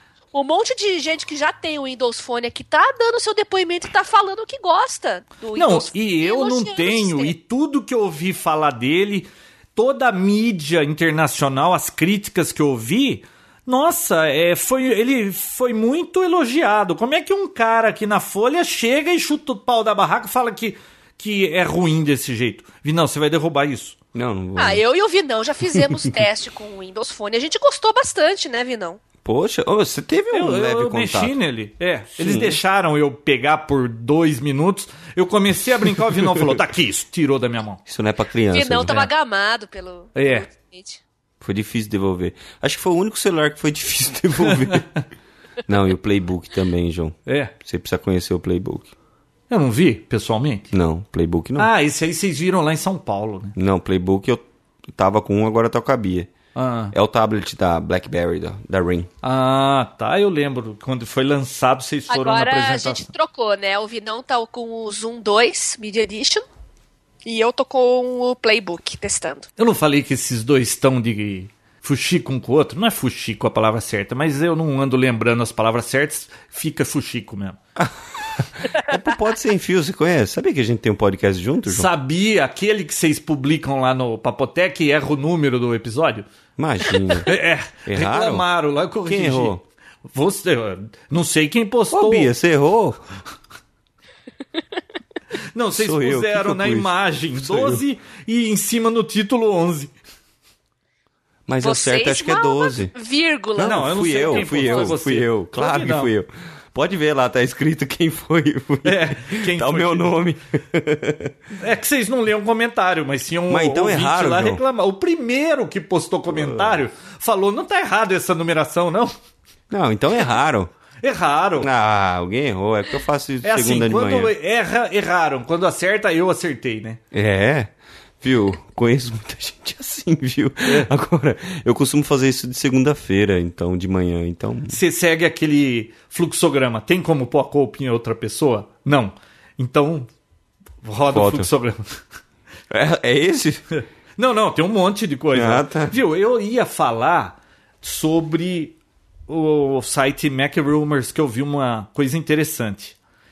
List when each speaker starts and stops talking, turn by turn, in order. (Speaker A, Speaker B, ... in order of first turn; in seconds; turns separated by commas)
Speaker A: 0.3-7.3, Speaker B: 5.5-24.0, Speaker C: 24.1-24.8, Speaker A: 24.6-29.0, Speaker C: 29.2-31.3, Speaker B: 30.3-37.8, Speaker C: 32.2-32.6, Speaker C: 37.9-39.0, Speaker A: 38.5-41.0, Speaker B: 40.1-40.5, Speaker C: 41.4-44.9, Speaker B: 44.5-44.8, Speaker C: 45.6-48.9, Speaker B: 47.3-47.5, Speaker B: 49.5-50.7, Speaker C: 50.7-51.7, Speaker B: 51.6-53.5, Speaker C: 53.5-56.3, Speaker B: 56.5-56.9, Speaker C: 56.9-59.1, Speaker B: 59.2-63.0, Speaker A: 62.1-66.4, Speaker A: 67.2-69.5, Speaker B: 69.6-77.6, Speaker C: 77.8-81.9, Speaker B: 81.7-86.2, Speaker C: 86.6-87.3, Speaker B: 87.2-92.3, Speaker C: 87.9-88.4, Speaker C: 89.0-89.6, Speaker C: 91.9-93.0, Speaker B: 95.5-99.9, Speaker C: 95.7-97.8, Speaker C: 101.5-102.9, Speaker A: 101.6-104.9, Speaker C: 103.6-111.4, Speaker B: 103.6-106.1, Speaker B: 108.8-110.1, Speaker B: 111.5-119.1, Speaker C: 113.5-114.6, Speaker C: 116.3-116.8, Speaker C: 119.7-120.7, Speaker B: 121.0-121.7, Speaker C: 121.6-124.3, Speaker B: 123.4-127.0, Speaker C: 127.1-134.8, Speaker B: 130.6-130.9, Speaker B: 134.7-140.1, Speaker B: 140.8-141.8, Speaker C: 141.1-141.5, Speaker C: 142.7-143.6, Speaker B: 144.2-148.7, Speaker C: 145.3-146.0, Speaker B: 149.3-152.9